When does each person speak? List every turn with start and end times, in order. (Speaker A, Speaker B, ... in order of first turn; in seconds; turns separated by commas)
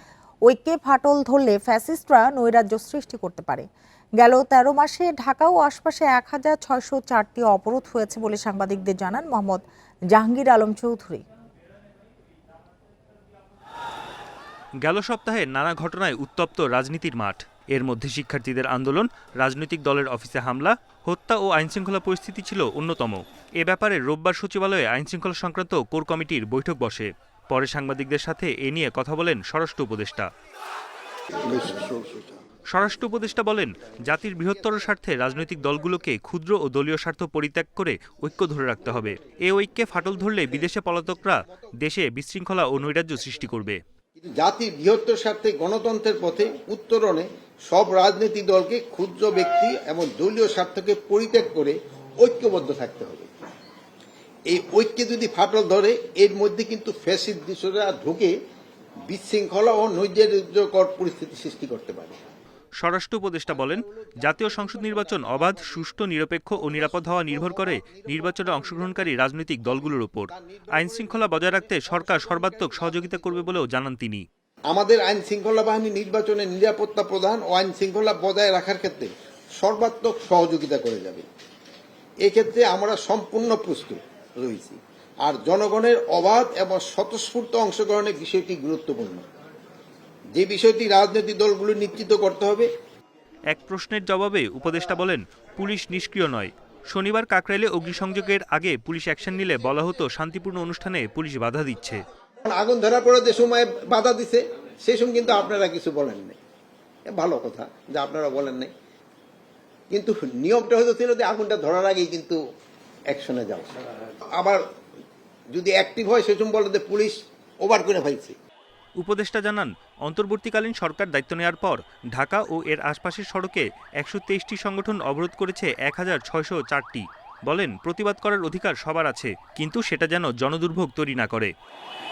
Speaker A: 0.5-3.7, Speaker A: 4.2-11.2, Speaker B: 14.8-30.3, Speaker C: 31.4-32.3, Speaker B: 32.7-43.8, Speaker C: 44.2-53.3, Speaker C: 54.5-58.4, Speaker C: 59.1-62.2, Speaker B: 62.8-74.2, Speaker C: 63.6-65.9, Speaker C: 66.5-69.1, Speaker C: 69.7-73.5, Speaker C: 74.7-81.2, Speaker C: 82.2-89.3, Speaker C: 90.3-92.7, Speaker B: 93.5-102.0, Speaker C: 102.5-106.4, Speaker C: 107.1-108.7, Speaker C: 109.9-112.4, Speaker C: 113.1-113.8, Speaker C: 114.3-114.6, Speaker C: 115.5-118.4, Speaker B: 119.0-131.5